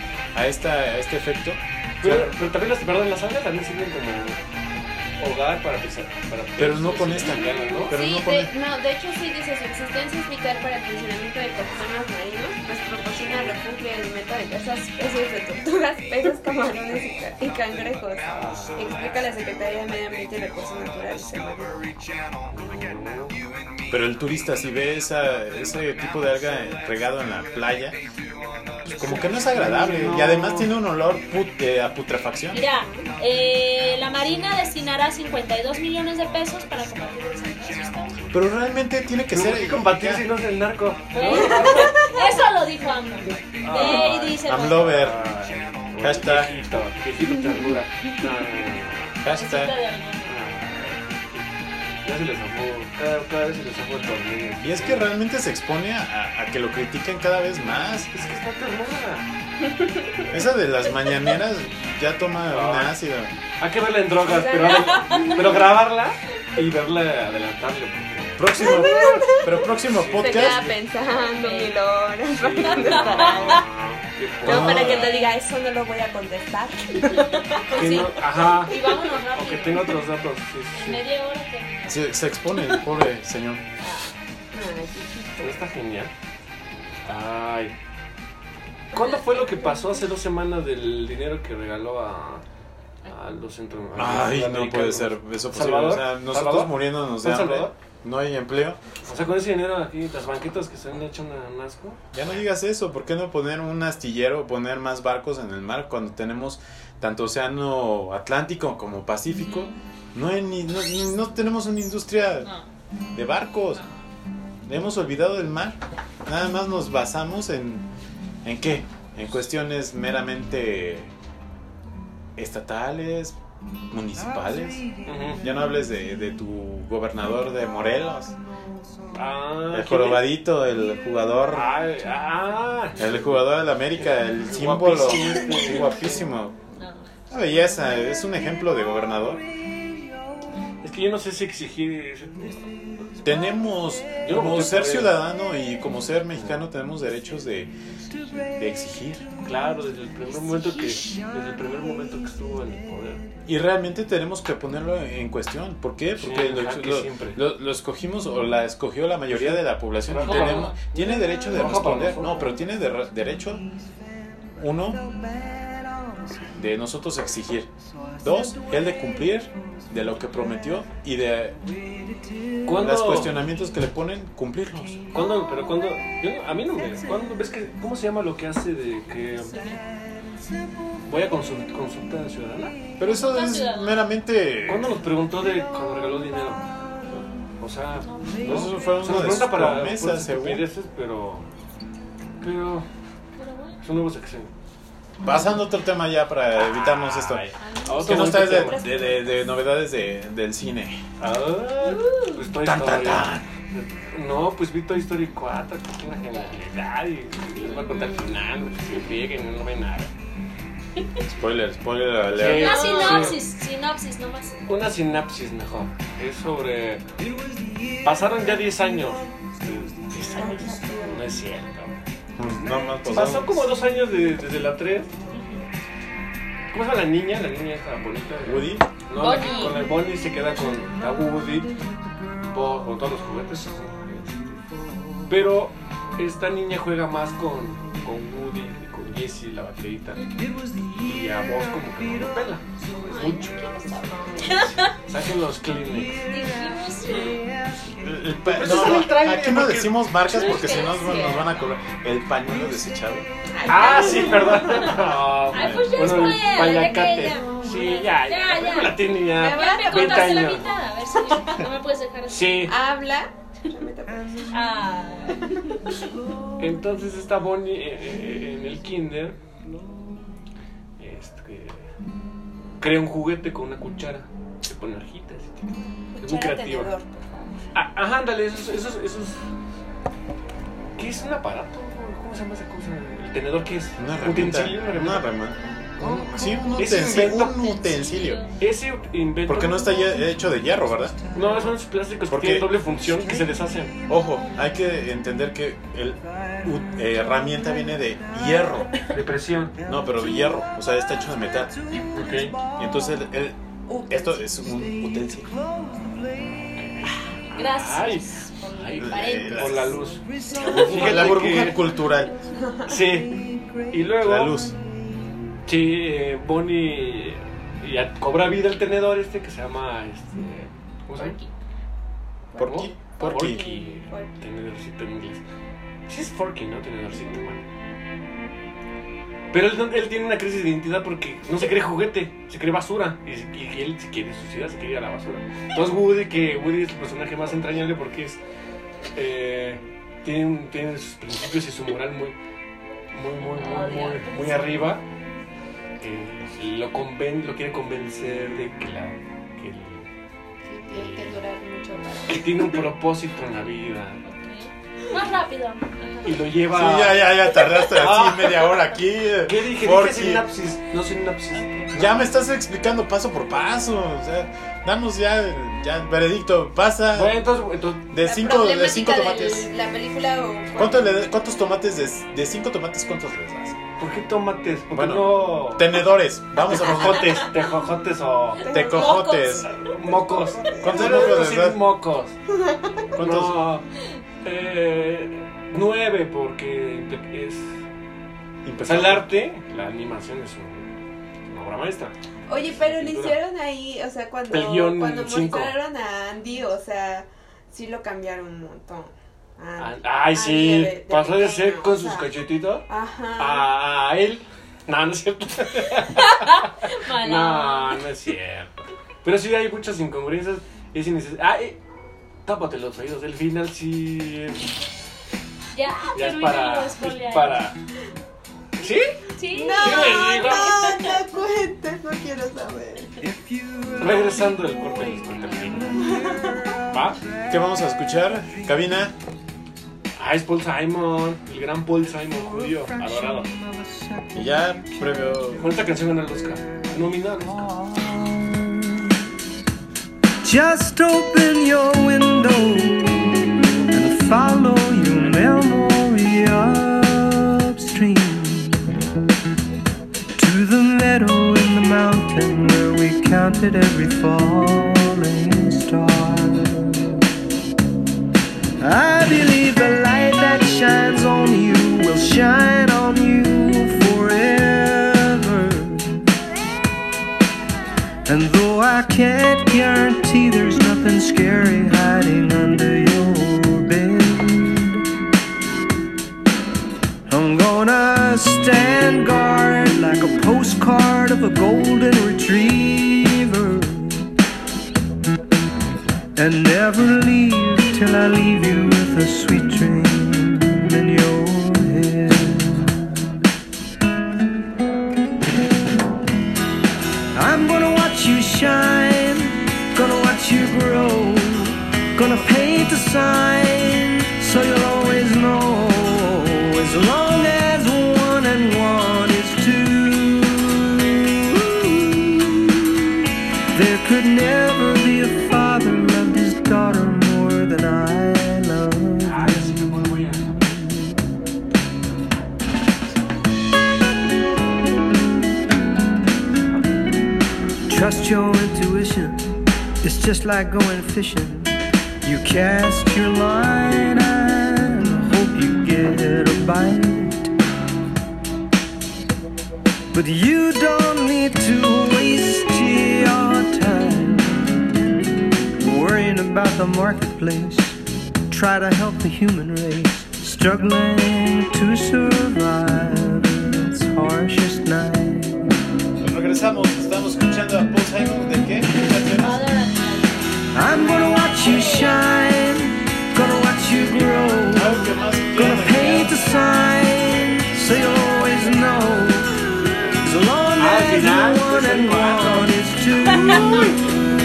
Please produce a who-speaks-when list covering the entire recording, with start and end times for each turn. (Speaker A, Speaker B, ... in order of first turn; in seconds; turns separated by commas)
Speaker A: 0.3-2.4, Speaker B: 2.0-4.4, Speaker B: 5.2-8.0, Speaker A: 6.6-8.5, Speaker C: 7.1-7.8, Speaker D: 7.9-21.8, Speaker B: 13.2-13.6, Speaker B: 18.3-19.0, Speaker B: 22.5-23.4, Speaker A: 23.9-28.0, Speaker B: 28.9-30.7, Speaker A: 28.9-32.6, Speaker C: 32.5-38.2, Speaker D: 32.8-33.1, Speaker A: 38.3-40.3, Speaker B: 39.3-42.1, Speaker C: 41.1-44.9, Speaker B: 43.6-49.2, Speaker A: 43.8-45.2, Speaker A: 46.0-46.7, Speaker A: 49.2-49.8, Speaker C: 49.3-50.4, Speaker B: 50.2-51.5, Speaker B: 52.0-55.1, Speaker A: 54.6-58.1, Speaker B: 58.1-59.3, Speaker A: 60.3-63.3, Speaker B: 62.5-62.9, Speaker B: 63.6-70.8, Speaker D: 64.2-65.7, Speaker C: 64.7-65.4, Speaker A: 68.4-70.7, Speaker D: 68.6-73.7, Speaker C: 71.3-71.8, Speaker B: 72.3-74.9, Speaker C: 72.7-73.6, Speaker A: 74.4-75.2, Speaker D: 74.4-78.1, Speaker C: 74.5-75.3, Speaker C: 77.6-80.0, Speaker B: 77.7-81.0, Speaker C: 80.7-82.8, Speaker A: 81.9-83.7, Speaker C: 83.8-84.1, Speaker D: 84.5-85.6, Speaker B: 85.4-86.1, Speaker B: 87.0-87.8, Speaker B: 88.9-92.4, Speaker C: 88.9-90.0, Speaker B: 93.1-97.7, Speaker A: 94.0-98.8, Speaker B: 99.0-102.0, Speaker A: 102.1-112.5, Speaker C: 109.4-109.8, Speaker A: 113.2-113.8, Speaker C: 113.7-114.0, Speaker A: 114.7-117.9, Speaker A: 118.5-121.1, Speaker A: 122.4-123.4, Speaker A: 123.9-124.9, Speaker B: 125.1-125.5, Speaker A: 125.4-128.3, Speaker B: 129.1-130.2, Speaker A: 129.7-131.8, Speaker B: 131.5-136.2, Speaker A: 133.0-136.6, Speaker C: 136.7-137.1, Speaker A: 137.3-139.4, Speaker B: 140.8-142.8, Speaker A: 143.2-147.7, Speaker B: 144.2-145.2, Speaker A: 148.5-149.3, Speaker B: 149.4-153.3, Speaker A: 153.5-163.7, Speaker B: 156.2-157.4, Speaker B: 159.3-162.6, Speaker A: 164.6-165.0, Speaker A: 166.5-167.7, Speaker A: 168.2-171.6, Speaker B: 172.7-173.4, Speaker A: 172.8-175.1, Speaker B: 175.1-179.6, Speaker C: 179.5-179.8, Speaker B: 181.1-182.8, Speaker A: 183.0-185.0, Speaker C: 183.1-184.1, Speaker B: 184.7-191.5, Speaker C: 188.0-188.9, Speaker A: 188.4-190.7, Speaker B: 192.4-192.9, Speaker C: 193.3-193.8, Speaker B: 193.8-194.5, Speaker A: 195.2-197.4, Speaker B: 196.6-199.1, Speaker C: 197.6-198.7, Speaker A: 198.0-201.0, Speaker D: 198.6-199.2, Speaker B: 201.2-210.1, Speaker C: 201.8-202.5, Speaker A: 202.6-203.5, Speaker C: 207.6-208.3, Speaker A: 211.3-213.3, Speaker B: 212.3-213.4, Speaker C: 212.4-214.6, Speaker B: 214.7-217.1, Speaker B: 218.0-222.0, Speaker D: 220.3-221.3, Speaker A: 222.4-223.7, Speaker B: 223.1-225.1, Speaker C: 225.3-225.6, Speaker B: 226.7-231.7, Speaker A: 228.4-228.9, Speaker C: 229.2-229.9, Speaker B: 232.5-234.6, Speaker B: 235.3-240.2, Speaker E: 240.6-240.9, Speaker B: 241.0-243.6, Speaker D: 243.0-244.7, Speaker C: 244.4-244.9, Speaker B: 244.9-246.3, Speaker C: 246.3-247.4, Speaker A: 248.0-253.3, Speaker B: 248.4-250.0, Speaker C: 250.3-251.6, Speaker D: 250.8-251.4, Speaker D: 253.5-254.9, Speaker B: 253.7-260.7, Speaker C: 253.7-262.7, Speaker A: 255.5-256.1, Speaker D: 259.3-260.6, Speaker B: 262.3-262.7, Speaker D: 262.7-264.6, Speaker C: 264.5-265.8, Speaker B: 266.6-269.4, Speaker B: 271.0-271.9, Speaker B: 272.8-276.9, Speaker D: 276.2-277.4, Speaker B: 277.7-279.4, Speaker B: 281.0-285.3, Speaker A: 284.0-285.6, Speaker B: 286.0-287.6, Speaker A: 286.1-288.5, Speaker C: 287.3-288.5, Speaker B: 288.6-290.0, Speaker A: 289.5-291.2, Speaker B: 291.3-294.0, Speaker A: 292.3-292.8, Speaker A: 294.1-299.0, Speaker B: 299.1-299.8, Speaker A: 299.9-301.8, Speaker B: 302.1-302.6, Speaker A: 302.8-303.6, Speaker D: 303.9-304.4, Speaker A: 304.1-305.5, Speaker B: 306.8-312.0, Speaker C: 307.5-310.0, Speaker A: 309.0-310.0, Speaker A: 310.6-312.4, Speaker D: 312.6-312.9, Speaker B: 312.9-314.7, Speaker E: 313.4-313.9, Speaker A: 314.2-314.8, Speaker B: 315.7-321.4, Speaker C: 321.1-321.5, Speaker D: 322.5-324.4, Speaker A: 322.6-323.7, Speaker B: 322.6-325.4, Speaker B: 326.1-327.6, Speaker B: 329.5-338.4, Speaker B: 339.1-342.4, Speaker B: 343.1-345.0, Speaker C: 343.4-345.0, Speaker B: 346.0-350.1, Speaker D: 350.6-352.8, Speaker B: 350.9-351.2, Speaker B: 352.3-354.2, Speaker C: 354.2-356.4, Speaker B: 356.2-358.8, Speaker A: 356.7-360.5, Speaker B: 359.4-362.3, Speaker C: 361.5-361.8, Speaker A: 361.9-367.4, Speaker B: 367.1-368.1, Speaker A: 368.1-369.7, Speaker D: 368.2-371.3, Speaker A: 370.8-373.8, Speaker B: 374.0-376.1, Speaker A: 374.9-377.5, Speaker B: 376.6-378.7, Speaker D: 378.6-379.3, Speaker A: 378.7-379.7, Speaker C: 378.7-379.8, Speaker B: 379.7-382.4, Speaker D: 380.6-381.1, Speaker A: 380.8-381.8, Speaker D: 382.5-383.1, Speaker A: 383.1-383.6, Speaker B: 383.2-383.9, Speaker B: 384.4-387.7, Speaker A: 388.6-389.3, Speaker B: 388.9-390.9, Speaker B: 391.5-392.1, Speaker D: 392.5-403.7, Speaker B: 392.7-393.4, Speaker B: 394.5-395.8, Speaker B: 399.8-402.9, Speaker B: 403.4-411.8, Speaker C: 406.2-408.1, Speaker B: 412.5-414.7, Speaker C: 415.7-417.7, Speaker B: 416.1-417.8, Speaker B: 418.8-419.2, Speaker C: 419.4-421.2, Speaker D: 419.5-423.1, Speaker B: 419.7-420.8, Speaker E: 423.3-426.8, Speaker B: 424.0-426.1, Speaker C: 425.3-425.8, Speaker D: 426.0-426.7, Speaker B: 426.9-427.2, Speaker A: 427.5-429.1, Speaker B: 430.2-433.5, Speaker E: 432.4-435.3, Speaker A: 434.3-435.7, Speaker B: 435.5-437.7, Speaker E: 437.4-439.1, Speaker E: 440.4-449.0, Speaker E: 450.4-457.2, Speaker E: 458.8-466.2, Speaker E: 468.3-475.1, Speaker E: 477.3-484.3, Speaker E: 486.4-492.9, Speaker E: 497.4-513.0, Speaker E: 513.7-519.8, Speaker B: 519.2-520.7, Speaker E: 527.9-529.5, Speaker E: 530.0-537.5, Speaker E: 540.1-544.9, Speaker E: 545.8-548.0, Speaker E: 548.5-555.7, Speaker A: 556.2-559.6, Speaker C: 559.3-562.2, Speaker E: 560.7-574.0, Speaker A: 564.7-566.4, Speaker B: 569.9-570.1, Speaker B: 570.8-572.9